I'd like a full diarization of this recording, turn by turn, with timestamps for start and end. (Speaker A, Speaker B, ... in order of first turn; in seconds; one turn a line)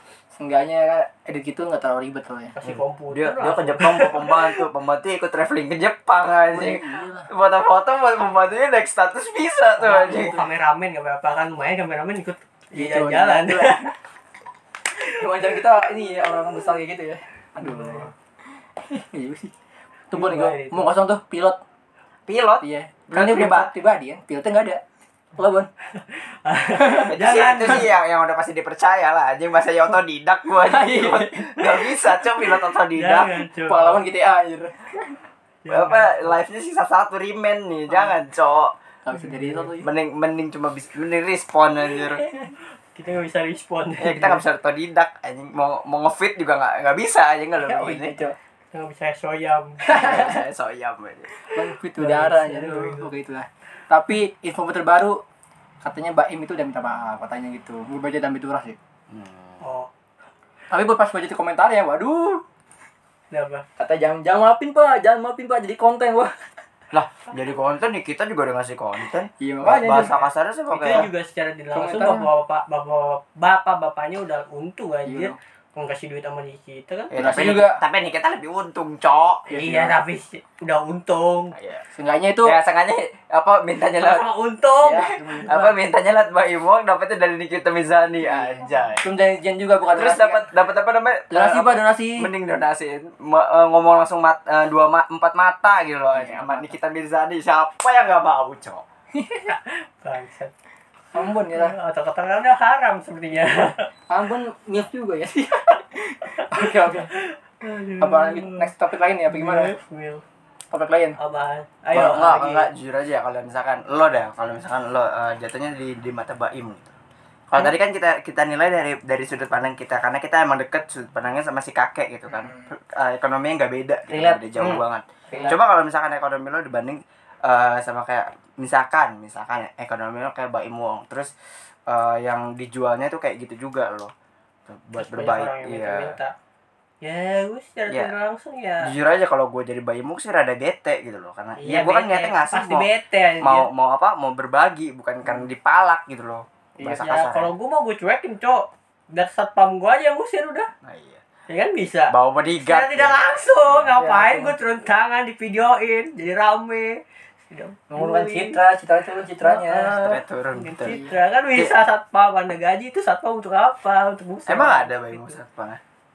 Speaker A: 0.3-2.6
Speaker B: 2.5-4.6
Speaker C: 2.6-10.4
Speaker A: 6.5-7.3
Speaker B: 9.8-13.9
Speaker A: 12.7-13.9
Speaker A: 15.0-18.1
Speaker B: 17.6-18.1
Speaker A: 18.8-19.5
Speaker A: 20.1-21.6
Speaker B: 20.1-20.9
Speaker C: 22.3-23.7
Speaker A: 22.6-24.8
Speaker A: 25.4-25.7
Speaker B: 26.0-27.9
Speaker A: 26.8-27.1
Speaker C: 27.1-33.5
Speaker A: 30.6-31.6
Speaker B: 32.9-34.0
Speaker A: 33.7-35.1
Speaker B: 35.6-36.3
Speaker C: 35.7-38.7
Speaker A: 39.0-39.9
Speaker B: 39.2-39.6
Speaker C: 39.8-42.2
Speaker A: 42.2-42.5
Speaker B: 42.8-44.4
Speaker C: 44.0-48.1
Speaker A: 47.6-48.4
Speaker B: 48.7-50.3
Speaker A: 49.8-50.4
Speaker C: 49.9-51.3
Speaker A: 51.5-55.2
Speaker B: 51.6-53.1
Speaker A: 55.8-58.8
Speaker C: 59.1-59.6
Speaker B: 59.6-59.9
Speaker A: 60.7-62.4
Speaker B: 63.3-63.6
Speaker A: 63.8-66.5
Speaker C: 66.9-71.1
Speaker A: 69.4-70.2
Speaker B: 70.7-77.1
Speaker A: 71.7-72.3
Speaker A: 75.1-75.3
Speaker C: 77.1-79.5
Speaker A: 77.2-77.8
Speaker A: 79.5-80.0
Speaker B: 79.5-81.5
Speaker C: 81.6-81.8
Speaker A: 81.9-82.6
Speaker C: 82.4-84.2
Speaker B: 84.0-85.4
Speaker A: 84.8-85.8
Speaker C: 85.0-89.1
Speaker A: 88.2-90.5
Speaker C: 89.9-98.8
Speaker A: 91.3-92.3
Speaker A: 96.1-96.7
Speaker A: 99.2-99.5
Speaker B: 99.5-100.5
Speaker A: 101.1-101.8
Speaker B: 101.5-103.9
Speaker A: 104.1-107.1
Speaker B: 106.4-108.7
Speaker A: 108.0-109.8
Speaker B: 109.3-110.2
Speaker A: 110.7-111.2
Speaker B: 111.2-112.7
Speaker C: 111.9-116.9
Speaker C: 117.5-131.3
Speaker A: 122.3-122.7
Speaker A: 124.1-124.4
Speaker A: 125.3-125.6
Speaker C: 131.9-134.1
Speaker C: 134.7-136.2
Speaker B: 135.0-136.3
Speaker B: 137.0-138.9
Speaker C: 138.8-142.9
Speaker B: 141.6-143.7
Speaker C: 143.4-147.5
Speaker B: 146.8-150.7
Speaker C: 150.8-151.2
Speaker B: 151.5-158.6
Speaker C: 152.1-153.9
Speaker A: 153.9-154.6
Speaker A: 157.9-160.0
Speaker B: 159.4-165.4
Speaker C: 160.0-161.0
Speaker A: 160.9-161.1
Speaker C: 164.5-165.8